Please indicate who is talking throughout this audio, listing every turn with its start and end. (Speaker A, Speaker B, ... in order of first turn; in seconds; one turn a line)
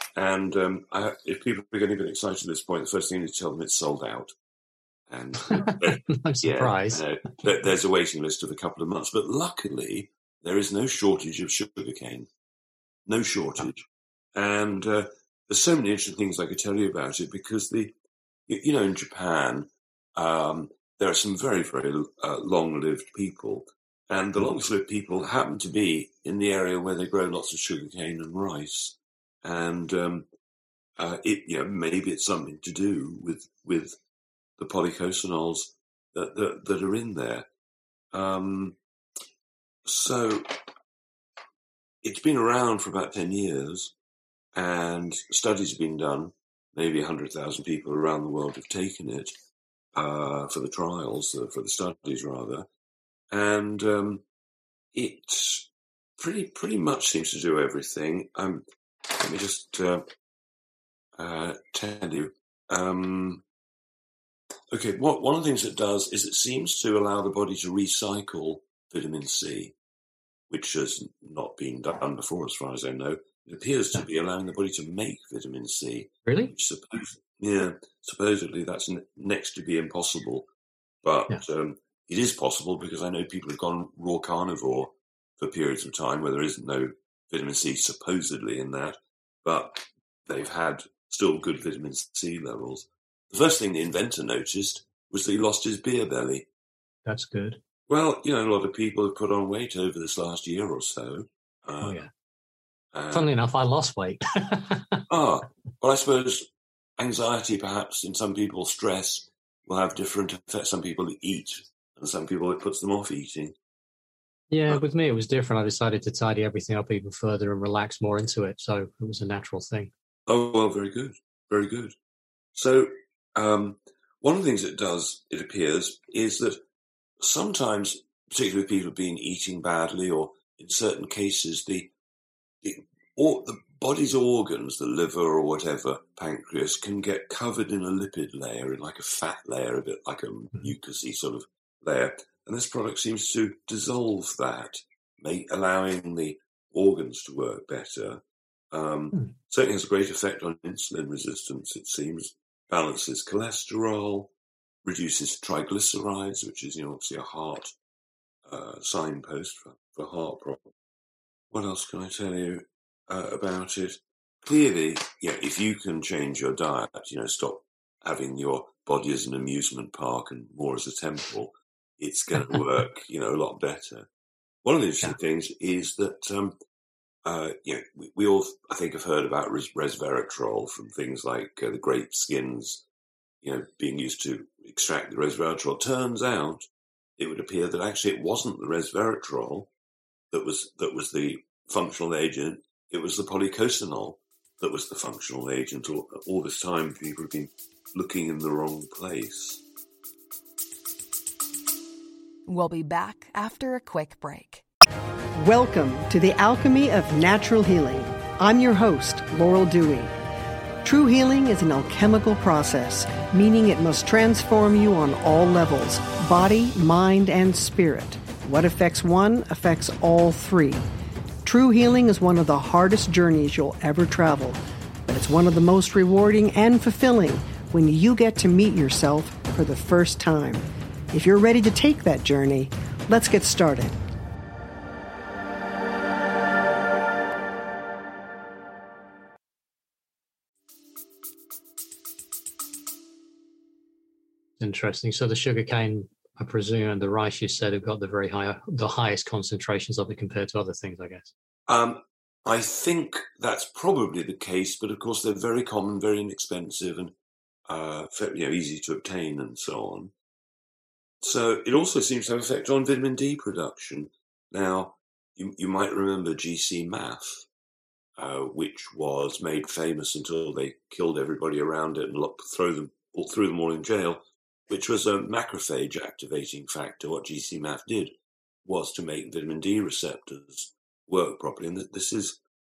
Speaker A: 0.1-4.3
Speaker A: 5.1-12.3
Speaker B: 5.5-7.0
Speaker A: 13.1-17.9
Speaker A: 18.5-30.3
Speaker A: 31.0-34.0
Speaker A: 34.6-37.5
Speaker A: 38.1-38.8
Speaker A: 39.8-40.6
Speaker A: 42.0-43.9
Speaker A: 44.5-49.3
Speaker A: 49.9-52.7
Speaker A: 53.3-54.2
Speaker A: 54.9-60.0
Speaker A: 61.1-63.4
Speaker A: 64.7-69.7
Speaker A: 70.5-80.5
Speaker B: 76.2-76.5
Speaker A: 81.0-96.5
Speaker B: 97.0-97.6
Speaker A: 97.9-102.0
Speaker B: 101.8-102.1
Speaker A: 102.9-103.3
Speaker B: 103.1-105.0
Speaker A: 105.1-113.5
Speaker B: 114.5-119.9
Speaker A: 120.3-121.9
Speaker A: 122.5-126.6
Speaker A: 127.2-131.9
Speaker A: 132.6-154.3
Speaker A: 154.8-157.7
Speaker A: 158.4-160.7
Speaker A: 161.5-174.1
Speaker A: 174.6-176.6
Speaker A: 177.2-182.8
Speaker A: 183.4-186.7
Speaker A: 187.2-189.7
Speaker A: 190.3-199.6
Speaker C: 202.4-204.6
Speaker D: 205.4-210.1
Speaker D: 210.8-220.8
Speaker D: 221.4-233.9
Speaker B: 244.6-251.3
Speaker A: 251.7-257.1
Speaker A: 257.7-260.1
Speaker A: 261.2-267.4
Speaker A: 268.2-282.4